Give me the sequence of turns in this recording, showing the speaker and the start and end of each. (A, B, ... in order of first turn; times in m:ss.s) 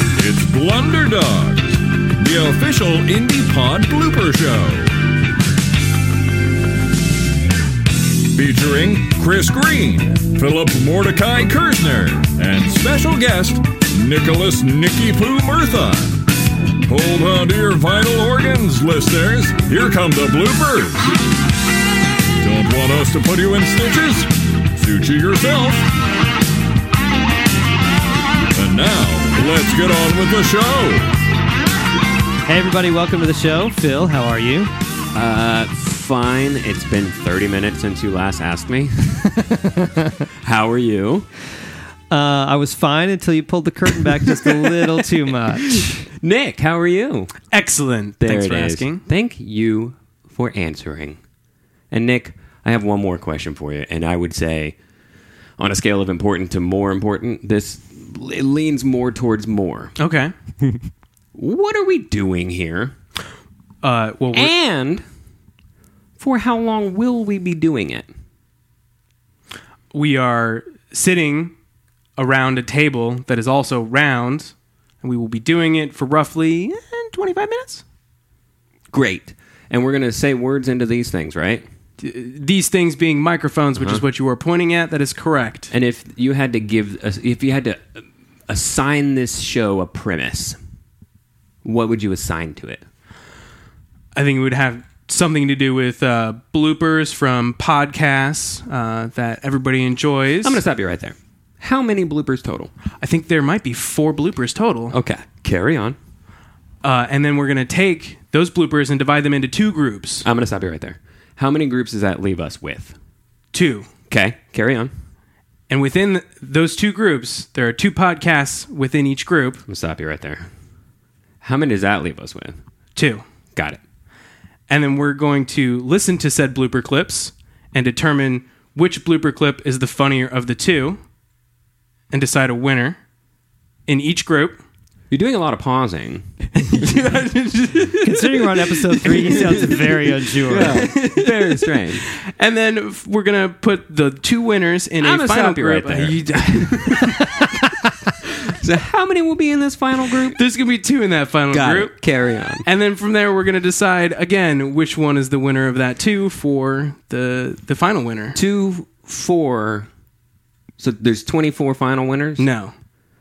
0:00.2-0:04.9 A
0:08.3-0:16.2 A
0:16.9-0:21.0 A
0:22.4-0:25.8 A
0:28.5-0:31.1 A
0:32.5-0:34.7 B
0:35.1-0:39.3 C
0:39.8-0:40.1 B
0:40.4-0:41.3 C
0:42.1-0:46.1 B
0:45.7-0:47.4 C
0:47.5-0:49.0 D
0:48.2-0:51.2 C
0:51.9-0:54.8 C
0:55.6-1:00.0 C
1:00.0-1:00.3 D
1:01.4-1:02.9 C
1:03.8-1:04.5 D
1:04.3-1:05.0 C
1:06.2-1:08.1 C
1:09.9-1:11.5 D
1:12.2-1:17.8 D
1:18.9-1:21.6 C
1:22.0-1:25.7 D
1:25.7-1:27.9 C
1:28.5-1:30.6 C
1:31.6-1:32.8 C
1:34.2-1:40.6 D
1:40.4-1:42.7 C
1:43.0-1:45.0 D
1:44.9-1:46.0 C
1:46.8-1:50.3 D
1:50.2-1:53.0 C
1:53.5-1:53.9 D
1:54.1-1:54.9 C
1:55.7-1:59.6 D
1:59.7-2:00.5 C
2:01.4-2:02.6 C
2:03.0-2:03.2 D
2:03.5-2:03.8 C
2:04.7-2:11.0 D
2:12.1-2:13.0 D
2:13.9-2:14.6 D
2:15.1-2:17.9 C
2:16.7-2:18.2 D
2:18.0-2:20.9 B
2:19.1-2:22.0 C
2:20.7-2:27.1 D
2:25.0-2:27.2 C
2:28.6-2:30.4 C
2:30.3-2:32.0 D
2:31.5-2:32.6 C
2:32.6-2:38.4 D
2:38.4-2:39.9 C
2:40.8-2:42.5 C
2:42.4-2:42.7 D